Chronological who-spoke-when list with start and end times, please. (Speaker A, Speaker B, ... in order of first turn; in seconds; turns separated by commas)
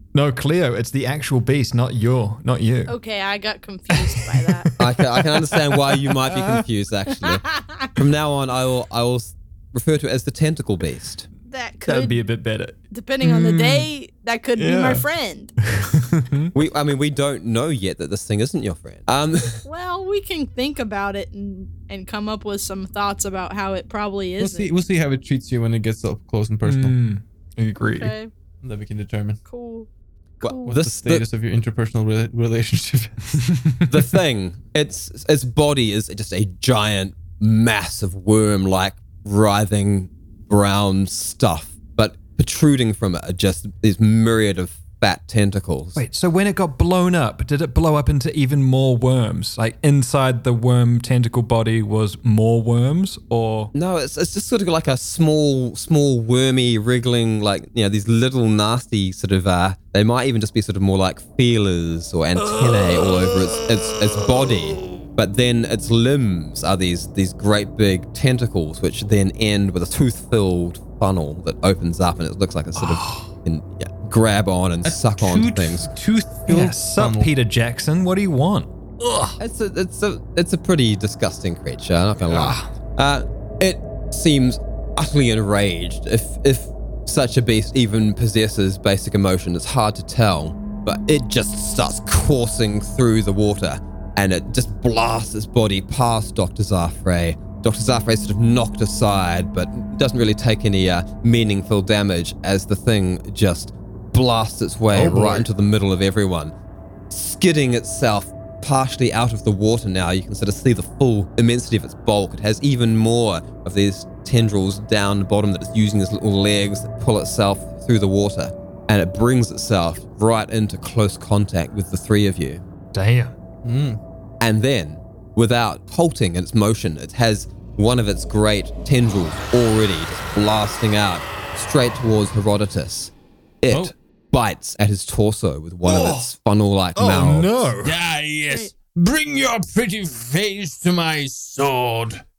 Speaker A: 0.1-3.0, Speaker B: 2.9-4.7, Speaker A: 3.9-6.6, Speaker C: 4.8-11.3, Speaker B: 11.5-12.2, Speaker A: 11.9-13.9, Speaker B: 12.9-15.5, Speaker A: 14.6-15.1, Speaker A: 15.7-16.5, Speaker C: 16.5-19.6, Speaker B: 19.7-24.7, Speaker D: 24.4-27.0, Speaker A: 26.6-28.1, Speaker B: 28.0-28.3, Speaker D: 28.6-29.4, Speaker B: 29.5-29.9, Speaker B: 30.4-30.8, Speaker C: 30.4-31.2, Speaker D: 30.7-33.4, Speaker A: 33.5-34.0, Speaker C: 33.9-46.0, Speaker A: 46.0-53.7, Speaker C: 53.7-75.9, Speaker A: 62.4-65.0, Speaker A: 72.8-73.3, Speaker D: 74.8-77.3, Speaker A: 76.5-79.4, Speaker C: 79.4-106.5, Speaker A: 82.3-82.7, Speaker A: 104.9-105.5, Speaker C: 107.1-122.6, Speaker A: 122.9-123.3, Speaker D: 123.6-124.0, Speaker C: 124.4-137.5, Speaker A: 135.8-136.3, Speaker A: 137.0-138.0, Speaker D: 137.8-142.2